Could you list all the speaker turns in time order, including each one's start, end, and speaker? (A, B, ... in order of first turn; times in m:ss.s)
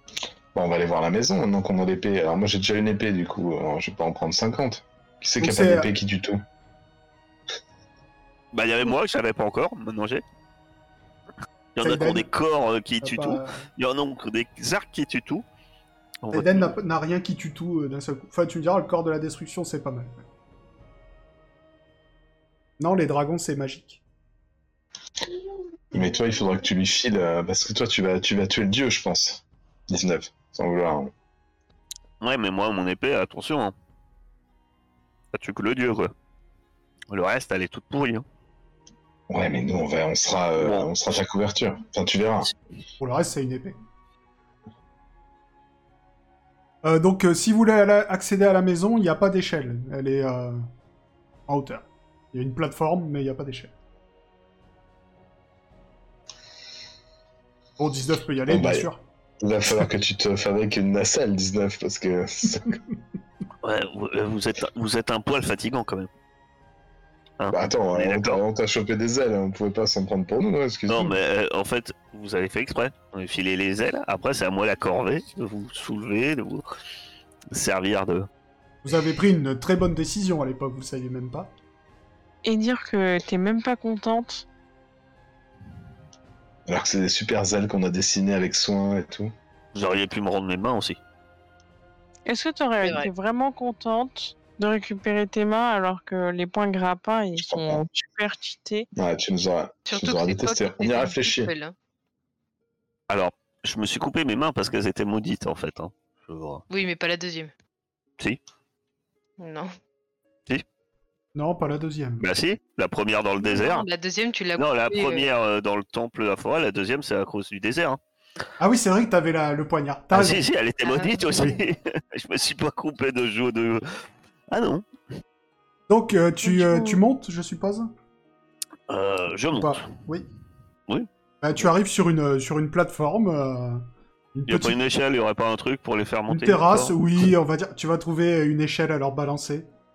0:00.5-0:06.4 A
0:05.4-0:05.9 B
0:08.5-0:10.2 C
0:11.8-0:15.4 C
0:11.8-0:12.3 B
0:13.0-0:13.7 B
0:16.2-0:16.7 C
0:16.3-0:20.2 B
0:22.8-0:24.0 B
0:25.9-0:31.1 A
0:32.2-0:33.7 C
0:35.3-0:36.1 C
0:37.1-0:38.2 C
0:39.3-0:42.5 A
0:40.6-0:40.9 C
0:43.0-0:43.8 B
0:46.8-0:50.6 B
0:51.5-0:53.7 B
0:57.8-0:59.0 B
0:58.5-0:58.9 A
0:59.4-1:02.8 A
1:03.6-1:06.1 C
1:07.4-1:08.4 C
1:07.5-1:11.2 A
1:10.9-1:16.6 C
1:17.5-1:18.3 C
1:18.8-1:21.5 B
1:22.4-1:24.4 D
1:26.7-1:29.3 A
1:29.7-1:31.0 C
1:32.2-1:38.9 D
1:32.8-1:33.1 E
1:37.4-1:37.8 A
1:38.9-1:41.5 A
1:39.9-1:41.7 E
1:43.1-1:46.6 C
1:46.7-1:47.5 E
1:49.4-1:49.7 E
1:51.3-1:52.2 B
1:52.2-1:53.8 C
1:53.4-1:55.3 E
1:54.6-1:58.0 C
1:58.6-2:00.4 B
2:00.1-2:03.8 C
2:00.8-2:01.2 E
2:04.5-2:04.9 C
2:05.9-2:07.9 B
2:06.4-2:07.0 D
2:08.9-2:09.8 C
2:09.5-2:10.3 B
2:10.9-2:11.7 C
2:11.4-2:14.8 B
2:14.5-2:17.3 C
2:16.3-2:19.7 B